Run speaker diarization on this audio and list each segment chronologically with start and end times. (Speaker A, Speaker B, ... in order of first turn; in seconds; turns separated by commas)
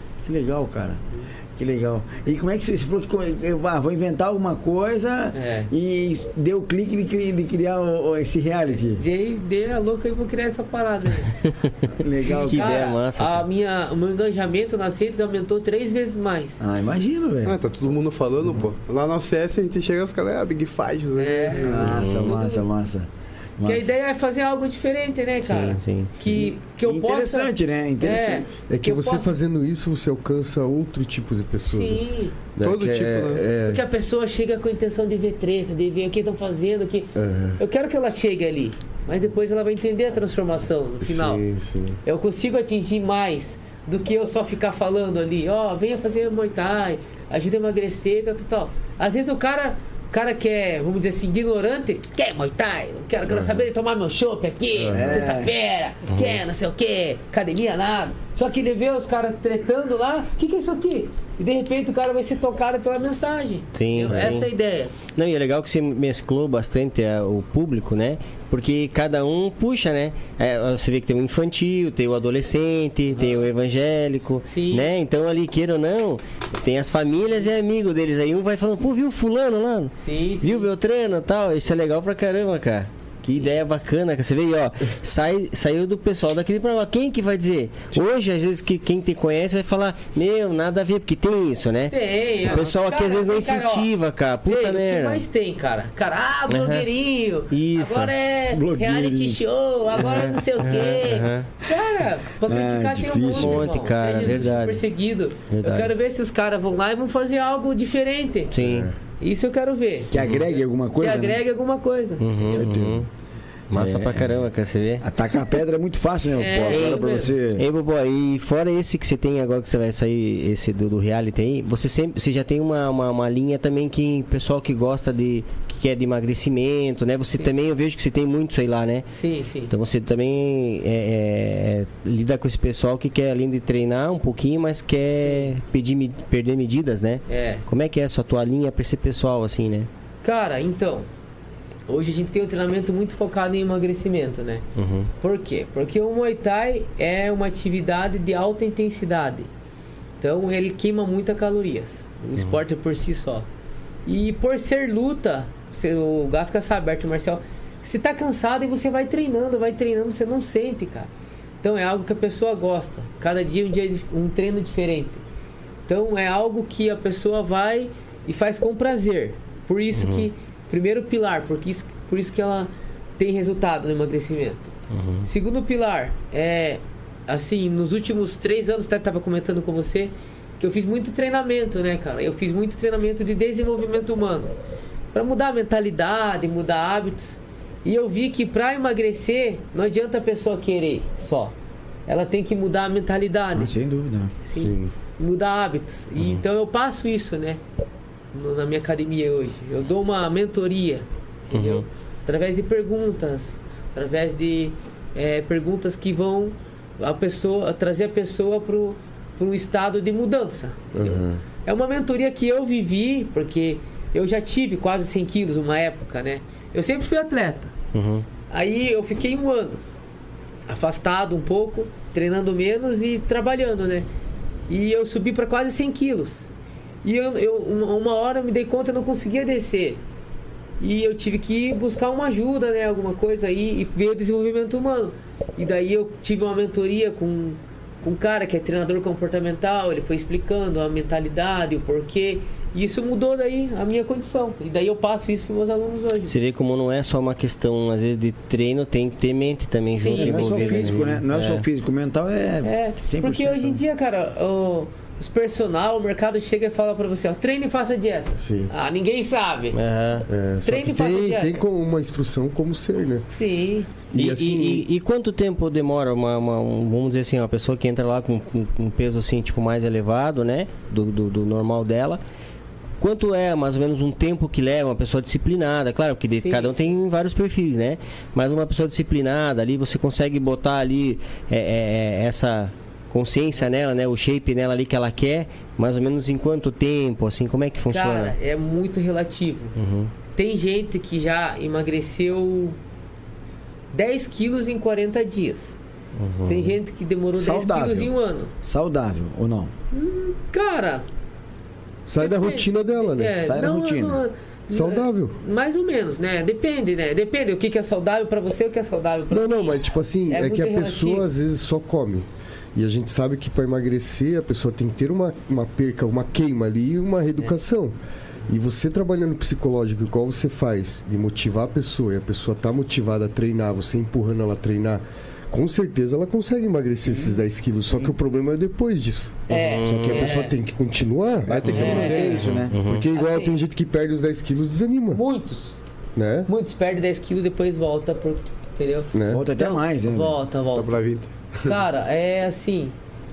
Speaker A: 0.2-1.0, Speaker A: 1.6-9.0, Speaker B: 5.3-5.7, Speaker B: 8.9-11.4, Speaker A: 12.0-12.8, Speaker B: 12.2-16.6, Speaker C: 12.4-13.4, Speaker A: 16.6-17.6, Speaker D: 17.4-21.9, Speaker B: 21.2-22.7, Speaker A: 21.6-23.9, Speaker C: 21.8-22.4, Speaker B: 23.6-29.4, Speaker C: 25.4-26.1, Speaker A: 26.2-28.5, Speaker E: 28.7-32.0, Speaker B: 31.6-32.4, Speaker E: 32.6-33.8, Speaker D: 32.6-33.5, Speaker B: 33.6-41.4, Speaker E: 37.2-37.6, Speaker E: 41.0-42.0, Speaker B: 42.0-65.0, Speaker E: 53.3-53.6, Speaker E: 54.8-55.2, Speaker A: 54.9-55.5, Speaker C: 56.1-56.4, Speaker C: 63.8-64.5, Speaker C: 65.1-95.2, Speaker B: 73.1-73.5, Speaker B: 74.5-74.9, Speaker B: 80.0-80.7, Speaker B: 91.9-93.9, Speaker B: 94.5-108.5, Speaker C: 96.5-96.9, Speaker C: 97.5-98.1, Speaker A: 98.5-99.4, Speaker C: 100.0-101.5, Speaker A: 102.5-103.7, Speaker C: 103.3-104.8, Speaker C: 105.5-105.9, Speaker C: 108.5-108.9, Speaker E: 108.6-108.9, Speaker B: 109.2-110.2, Speaker A: 110.1-111.4, Speaker B: 111.0-112.7, Speaker C: 112.2-113.1, Speaker A: 112.5-113.0, Speaker C: 113.7-115.0, Speaker A: 113.7-114.3, Speaker A: 115.0-117.7, Speaker B: 116.4-117.3, Speaker C: 116.6-129.1, Speaker B: 129.1-129.7, Speaker C: 129.7-139.9, Speaker B: 135.2-135.5, Speaker B: 137.3-137.6, Speaker B: 140.2-141.1, Speaker B: 141.9-144.6, Speaker C: 144.8-145.1, Speaker B: 145.2-149.5, Speaker B: 150.2-153.5, Speaker B: 154.1-161.1, Speaker B: 161.6-165.2, Speaker B: 165.9-174.7, Speaker C: 170.0-170.3, Speaker C: 174.9-175.3, Speaker B: 175.2-184.5, Speaker B: 185.1-191.6, Speaker B: 192.1-193.8, Speaker A: 193.6-194.3, Speaker B: 194.4-197.6, Speaker E: 194.5-194.9, Speaker B: 198.3-217.7, Speaker C: 201.5-201.8, Speaker E: 210.9-211.4, Speaker C: 217.9-218.3, Speaker B: 218.5-219.8, Speaker B: 220.7-224.1, Speaker B: 224.7-226.5, Speaker B: 227.0-230.0, Speaker B: 230.8-246.3, Speaker C: 246.3-251.6, Speaker B: 250.0-250.9, Speaker A: 250.1-253.8, Speaker E: 250.7-251.2, Speaker B: 252.6-259.8, Speaker E: 258.4-258.7, Speaker C: 259.7-260.3, Speaker E: 260.3-263.3, Speaker B: 260.6-261.6, Speaker B: 263.3-263.9, Speaker E: 264.1-264.9, Speaker C: 264.2-272.2, Speaker C: 273.0-288.3, Speaker B: 276.3-276.9, Speaker B: 287.9-289.8, Speaker C: 289.8-290.1, Speaker B: 290.3-292.8, Speaker B: 293.9-295.8, Speaker C: 296.2-296.8, Speaker B: 296.5-298.5, Speaker A: 297.4-298.1, Speaker A: 298.6-299.7, Speaker B: 299.9-301.1, Speaker E: 302.1-303.5, Speaker B: 302.2-311.3, Speaker A: 303.4-304.2, Speaker E: 304.7-305.4, Speaker E: 309.3-318.0, Speaker E: 318.5-335.2, Speaker B: 329.5-330.6, Speaker C: 329.5-330.4, Speaker A: 331.5-332.8, Speaker D: 331.6-332.4, Speaker C: 331.6-333.1, Speaker B: 331.7-332.4, Speaker B: 333.1-333.6, Speaker B: 335.1-335.8, Speaker E: 336.2-336.5, Speaker B: 336.5-341.0, Speaker E: 339.1-339.4, Speaker A: 339.3-340.4, Speaker D: 340.8-341.8, Speaker B: 341.6-342.9